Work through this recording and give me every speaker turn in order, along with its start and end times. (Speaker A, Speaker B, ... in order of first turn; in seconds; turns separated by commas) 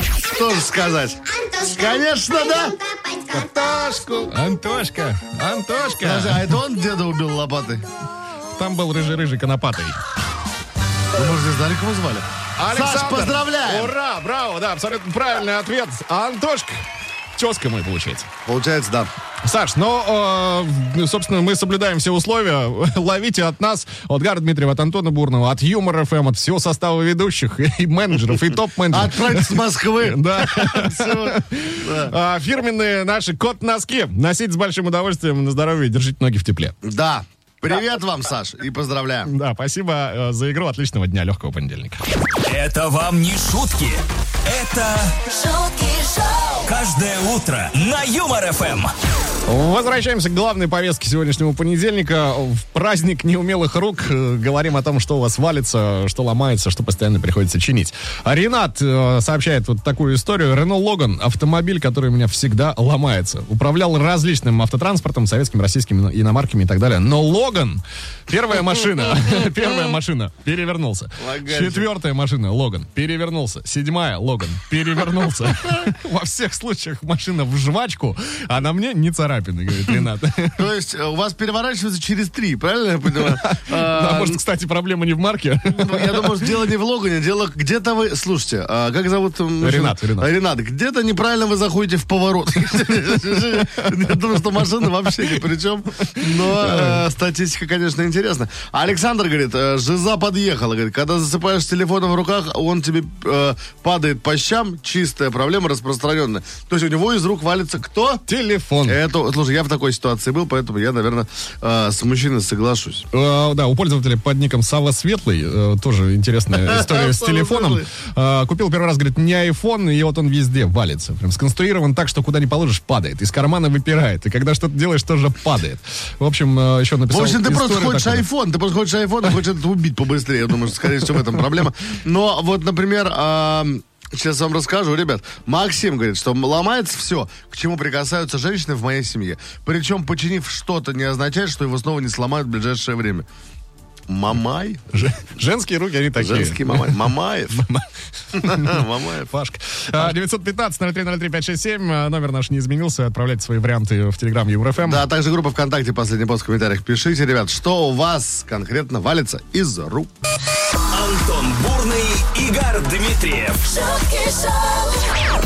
Speaker A: 0.2-2.8, Speaker B: 1.4-1.8, Speaker B: 2.9-3.5, Speaker C: 3.3-6.5, Speaker A: 6.0-7.8, Speaker C: 8.5-10.0, Speaker A: 11.1-13.9, Speaker C: 12.6-18.3, Speaker A: 18.4-19.1, Speaker C: 19.4-36.7, Speaker A: 28.9-32.1, Speaker A: 36.8-39.3, Speaker C: 39.2-42.0, Speaker D: 42.4-45.2, Speaker B: 45.2-46.7, Speaker D: 46.6-48.9, Speaker C: 49.5-80.6, Speaker A: 71.2-71.9, Speaker A: 80.5-84.4, Speaker C: 83.2-86.5, Speaker A: 85.7-108.2, Speaker C: 89.6-90.3, Speaker C: 96.1-97.0, Speaker C: 108.3-109.0, Speaker A: 108.8-113.1, Speaker C: 113.1-128.2, Speaker A: 116.5-117.8, Speaker A: 127.1-143.3, Speaker A: 144.1-144.9, Speaker C: 144.9-155.0, Speaker A: 146.2-147.7, Speaker A: 148.3-149.3, Speaker A: 154.8-160.1, Speaker D: 160.9-163.7, Speaker B: 163.6-165.2